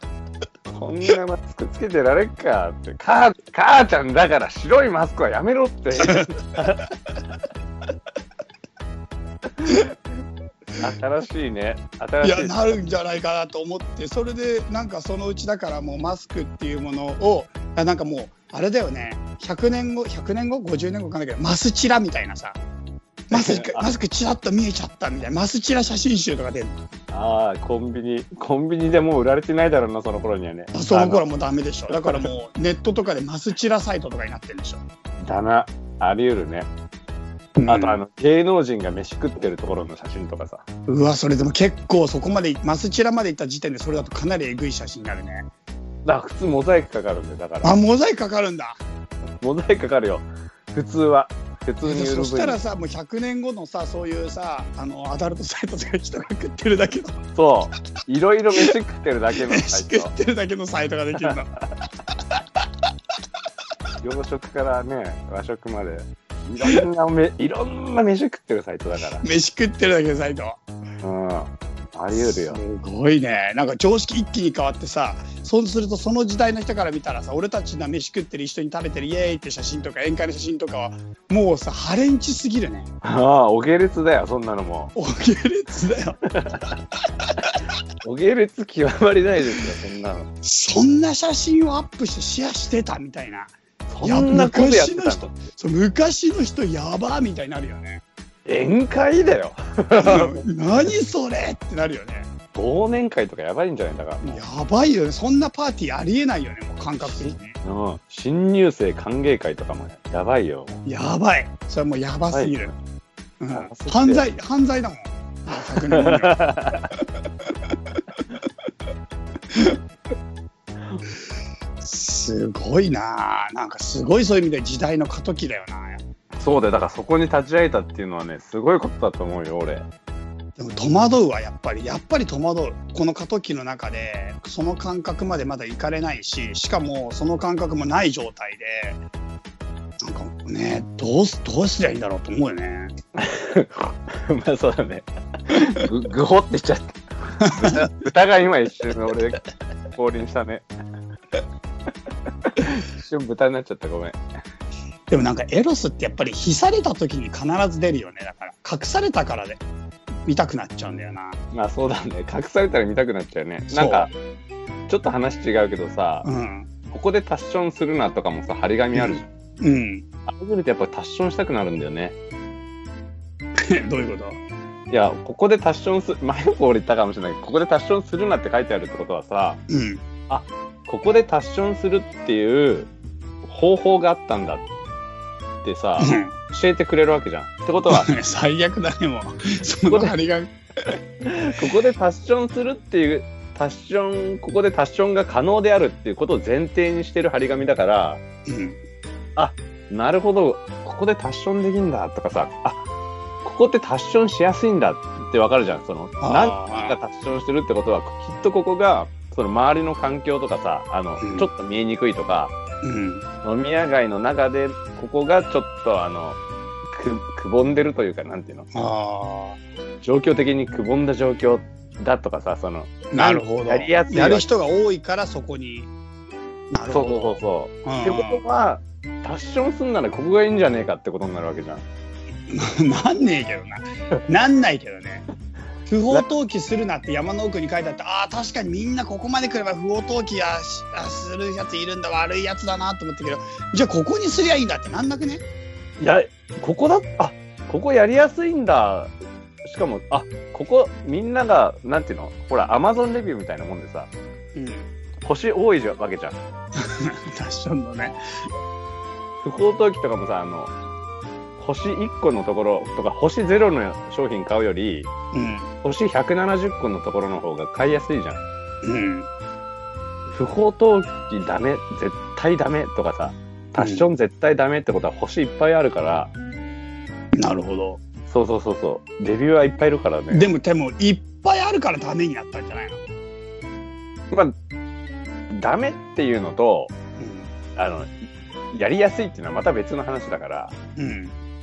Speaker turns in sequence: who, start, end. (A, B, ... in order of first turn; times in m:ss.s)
0:00.7-0:06.9 A
0:09.5-0:09.9 A
0:10.8-0:12.8 A
0:12.2-0:22.6 B
0:23.3-0:26.8 B
0:23.3-0:23.9 A
0:27.1-0:31.2 A
0:30.7-0:34.8 B
0:32.0-0:32.3 A
0:35.2-0:36.7 A
0:37.6-0:38.0 B
0:37.7-0:40.6 A
0:40.9-0:45.5 B
0:46.0-0:47.8 A
0:47.6-0:48.8 B
0:49.4-0:52.6 A
0:51.8-0:57.2 B
0:57.4-1:00.1 A
0:59.4-1:01.5 B
1:04.0-1:09.2 A
1:09.2-1:10.6 B
1:11.0-1:12.6 A
1:12.1-1:22.9 B
1:23.0-1:24.9 A
1:25.0-1:26.2 B
1:26.3-1:26.6 A
1:28.0-1:30.3 A
1:30.4-1:38.0 B
1:33.9-1:35.3 A
1:38.4-1:40.4 A
1:40.0-1:42.3 B
1:42.5-1:44.4 A
1:44.2-1:47.6 B
1:47.2-1:50.8 A
1:50.8-1:52.7 B
1:52.3-1:52.7 A
1:53.4-1:56.5 B
1:53.5-1:54.2 A
1:55.8-1:56.9 A
2:01.8-2:06.0 B
2:06.4-2:09.9 A
2:10.6-2:19.0 B
2:20.0-2:22.9 B
2:23.2-2:30.7 A
2:27.4-2:27.9 B
2:32.4-2:34.2 A
2:35.1-2:39.6 B
2:40.3-2:41.4 B
2:41.5-2:44.1 A
2:43.7-2:44.1 B
2:44.9-2:46.3 A
2:46.2-2:46.7 B
2:46.9-2:49.2 A
2:48.9-2:50.1 B
2:50.3-2:52.2 A
2:53.6-2:54.4 B
2:54.9-2:59.6 A
2:59.7-3:00.0 B
3:00.3-3:02.9 A
3:03.4-3:04.6 A
3:05.6-3:08.1 A
3:06.0-3:06.3 B
3:07.9-3:11.0 B
3:09.9-3:10.1 A
3:11.2-3:18.2 A
3:18.5-3:18.8 B
3:19.4-3:22.8 A
3:23.4-3:32.6 A
3:26.2-3:27.0 B
3:31.2-3:31.5 B
3:32.8-3:33.2 B
3:33.4-3:38.7 A
3:38.7-3:39.6 B
3:40.0-3:44.5 A
3:43.1-3:45.9 B
3:46.7-3:48.4 B
3:46.9-3:51.8 A
3:52.5-3:55.2 B
3:55.9-4:05.4 B
4:06.0-4:09.1 A
4:09.6-4:14.1 A
4:14.6-4:14.9 B
4:15.2-4:16.4 A
4:16.8-4:18.2 B
4:19.4-4:20.7 A
4:21.6-4:25.1 A
4:25.3-4:25.7 B
4:25.8-4:28.4 A
4:28.8-4:29.3 B
4:30.3-4:36.3 A
4:33.8-4:34.1 B
4:37.4-4:38.0 B
4:38.3-4:40.5 A
4:40.3-4:43.0 B
4:45.5-4:46.9 A
4:47.2-4:47.5 B
4:47.8-4:50.8 A
4:51.0-4:51.3 B